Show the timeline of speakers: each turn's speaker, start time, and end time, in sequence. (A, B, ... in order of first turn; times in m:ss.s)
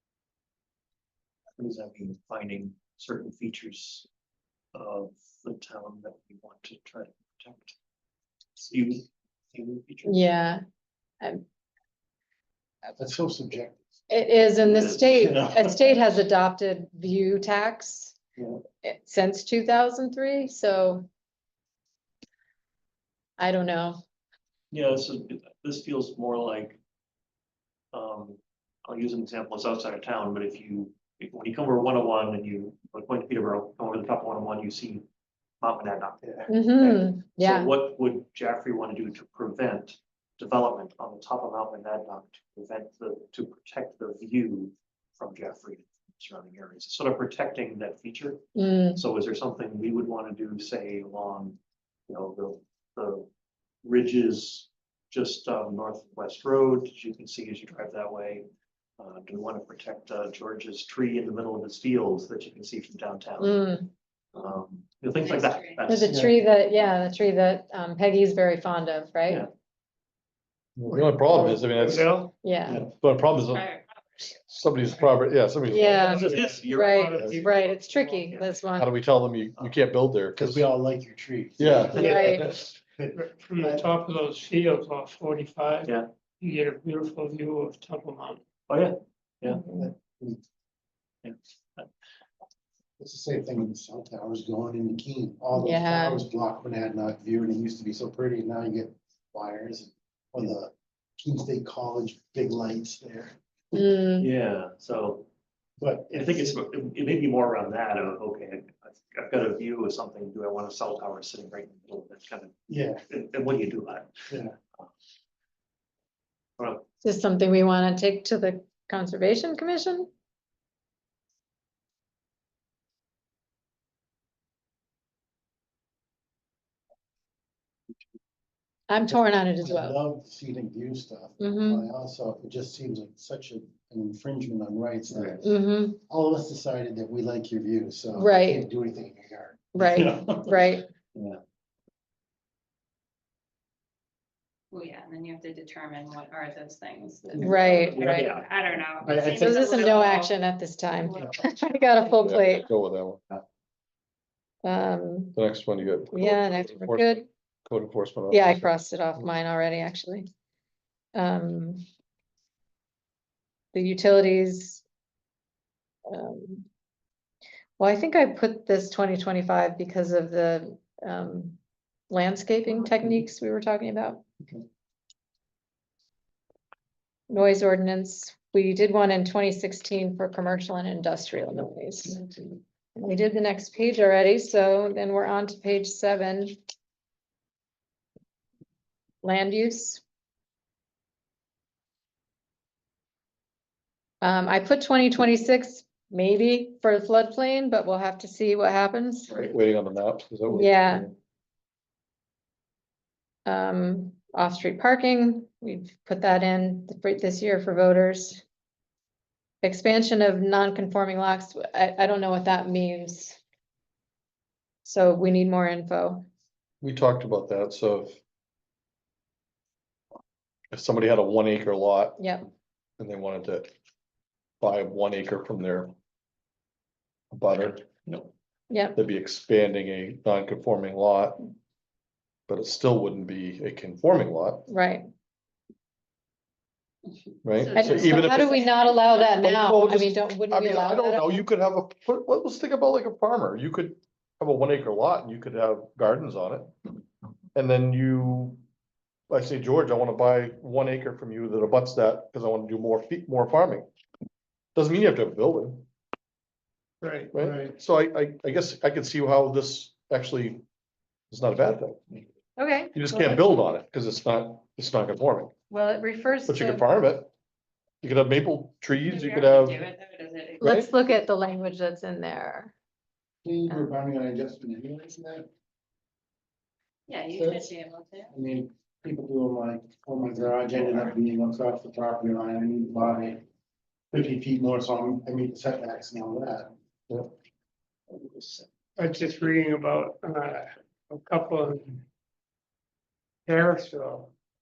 0:01.6-0:04.1 A
0:04.8-0:07.8 A
0:08.6-0:10.3 A
0:10.1-0:10.6 B
0:13.0-0:13.9 C
0:14.1-0:18.2 B
0:14.6-0:15.4 A
0:14.8-0:16.0 C
0:18.8-0:21.1 B
0:23.4-0:24.0 B
0:24.7-0:26.8 A
0:27.9-0:35.0 A
0:35.6-0:48.4 A
0:36.5-0:37.7 B
0:48.6-0:49.0 B
0:49.0-0:51.6 A
0:52.1-0:53.3 A
0:53.8-0:58.5 A
0:59.0-1:03.6 A
1:03.4-1:03.9 B
1:04.3-1:06.2 A
1:05.1-1:05.9 D
1:05.9-1:09.5 B
1:05.9-1:06.4 C
1:10.8-1:12.2 E
1:10.9-1:12.4 F
1:12.4-1:12.8 B
1:12.7-1:13.7 E
1:13.5-1:13.8 D
1:14.5-1:16.4 E
1:15.7-1:18.9 B
1:15.8-1:18.3 F
1:16.0-1:18.6 A
1:18.8-1:20.7 E
1:20.4-1:23.9 C
1:21.6-1:22.6 E
1:21.6-1:22.2 A
1:21.9-1:22.5 B
1:23.2-1:28.4 F
1:28.7-1:29.8 A
1:29.5-1:29.9 B
1:29.8-1:30.4 C
1:31.2-1:31.9 A
1:33.0-1:43.4 C
1:35.6-1:36.2 B
1:43.7-1:44.3 B
1:44.2-1:45.3 A
1:45.8-1:46.6 C
1:46.1-1:52.5 A
1:52.7-1:53.0 C
1:53.1-1:54.1 A
1:54.3-1:54.6 C
1:56.6-1:56.8 A
1:57.0-2:00.1 B
2:08.9-2:10.0 B
2:09.1-2:20.7 C
2:11.4-2:11.9 B
2:15.1-2:15.4 A
2:15.4-2:16.0 B
2:18.2-2:18.7 B
2:19.7-2:20.9 B
2:24.7-2:30.3 D
2:27.3-2:29.2 A
2:27.4-2:28.3 B
2:29.0-2:29.8 C
2:29.4-2:32.7 B
2:31.0-2:32.1 D
2:32.2-2:33.2 E
2:34.6-2:35.4 B
2:35.4-2:39.3 E
2:36.1-2:37.3 B
2:38.3-2:40.3 B
2:41.2-2:41.8 B
2:43.7-2:44.8 B
2:46.1-2:46.7 B
2:47.8-2:51.6 B
2:52.1-2:54.2 B
2:57.3-3:02.2 B
3:03.0-3:06.6 B
3:09.2-3:10.0 B
3:14.2-3:19.4 B
3:19.3-3:21.1 E
3:20.5-3:21.1 B
3:23.5-3:28.4 B
3:29.6-3:33.4 B
3:34.8-3:36.3 B
3:36.8-3:38.2 E
3:40.7-3:42.2 E
3:42.2-3:42.5 B
3:43.0-3:43.7 E
3:44.6-3:45.9 E
3:47.3-3:47.8 E
3:48.7-3:49.0 B
3:49.0-3:51.5 E
3:52.5-3:54.7 E
3:54.7-3:55.1 B
3:57.4-3:58.7 E
3:57.5-3:59.3 D
3:57.8-4:01.4 B
3:59.4-4:06.7 E
4:07.6-4:08.6 E
4:09.3-4:13.9 E
4:14.8-4:15.9 E
4:17.0-4:17.7 F
4:17.3-4:20.6 E
4:21.3-4:22.2 E
4:22.6-4:23.4 B
4:22.9-4:25.5 E
4:25.7-4:26.8 B
4:26.5-4:27.3 E
4:28.0-4:29.8 E
4:29.0-4:31.1 D
4:30.6-4:30.9 E
4:30.6-4:32.7 B
4:33.4-4:35.5 C
4:37.1-4:38.4 D
4:37.4-4:37.7 C
4:38.3-4:43.4 C
4:44.1-4:46.7 C
4:48.2-4:48.6 A
4:49.0-4:52.0 F
4:53.5-4:54.3 F